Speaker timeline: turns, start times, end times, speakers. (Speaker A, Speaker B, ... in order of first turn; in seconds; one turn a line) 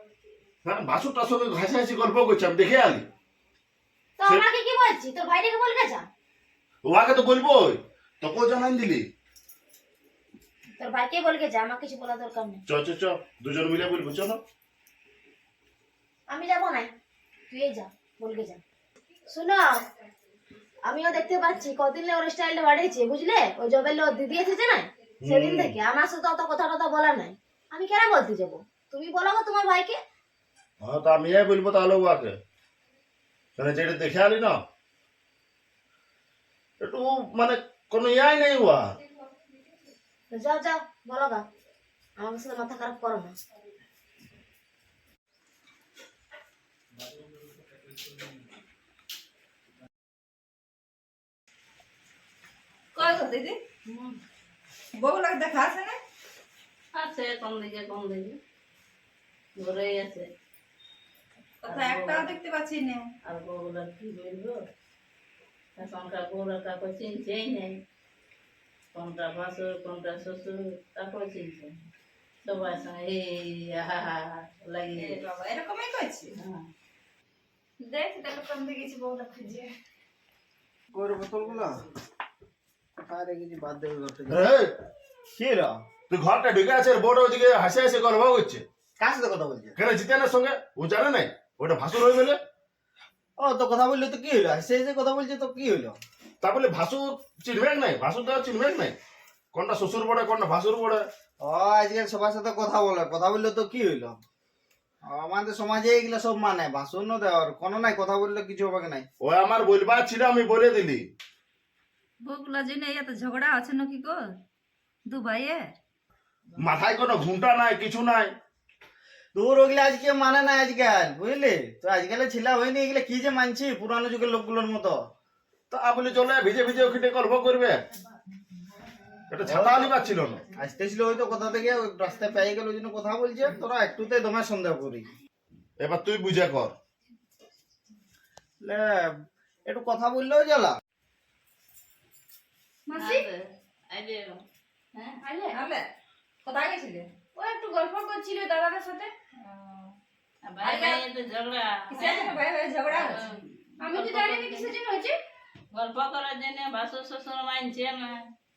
Speaker A: 0.7-3.0
Speaker B: 4.2-6.1
Speaker A: 6.8-9.1
Speaker B: 10.8-12.6
Speaker A: 12.7-14.4
Speaker B: 16.3-16.9
Speaker B: 17.5-18.6
Speaker B: 19.3-19.8
Speaker B: 20.9-30.0
Speaker A: 25.2-25.8
Speaker A: 30.8-32.4
Speaker A: 33.6-34.6
Speaker A: 36.8-38.9
Speaker B: 40.3-41.4
Speaker B: 42.2-43.3
Speaker C: 53.0-53.6
Speaker D: 53.9-54.1
Speaker C: 55.0-56.0
Speaker D: 57.0-58.4
Speaker D: 59.6-60.3
Speaker C: 61.6-63.0
Speaker D: 61.7-62.3
Speaker D: 63.3-64.6
Speaker D: 65.8-67.8
Speaker D: 69.0-71.7
Speaker D: 72.5-75.2
Speaker C: 75.0-76.3
Speaker C: 77.8-79.7
Speaker E: 80.9-81.7
Speaker E: 83.1-84.5
Speaker A: 84.3-84.7
Speaker E: 85.4-85.8
Speaker A: 86.1-88.7
Speaker E: 89.0-89.8
Speaker A: 89.8-92.4
Speaker E: 93.4-96.0
Speaker A: 96.4-99.0
Speaker A: 99.5-101.0
Speaker E: 101.4-104.2
Speaker E: 105.0-109.1
Speaker A: 109.2-111.0
Speaker C: 112.2-114.3
Speaker C: 115.1-115.7
Speaker A: 116.6-118.3
Speaker E: 119.3-125.0
Speaker A: 125.7-127.8
Speaker A: 129.3-130.4
Speaker E: 129.4-135.1
Speaker A: 135.8-136.7
Speaker E: 138.6-139.1
Speaker E: 139.7-140.8
Speaker F: 142.9-143.3
Speaker D: 142.9-144.4
Speaker F: 145.2-145.6
Speaker C: 145.5-145.8
Speaker C: 146.4-147.1
Speaker F: 147.4-149.1
Speaker C: 149.4-149.9
Speaker D: 150.4-152.3
Speaker C: 150.6-151.0
Speaker C: 151.9-153.2
Speaker D: 152.9-154.7
Speaker F: 153.8-155.2
Speaker D: 155.7-158.2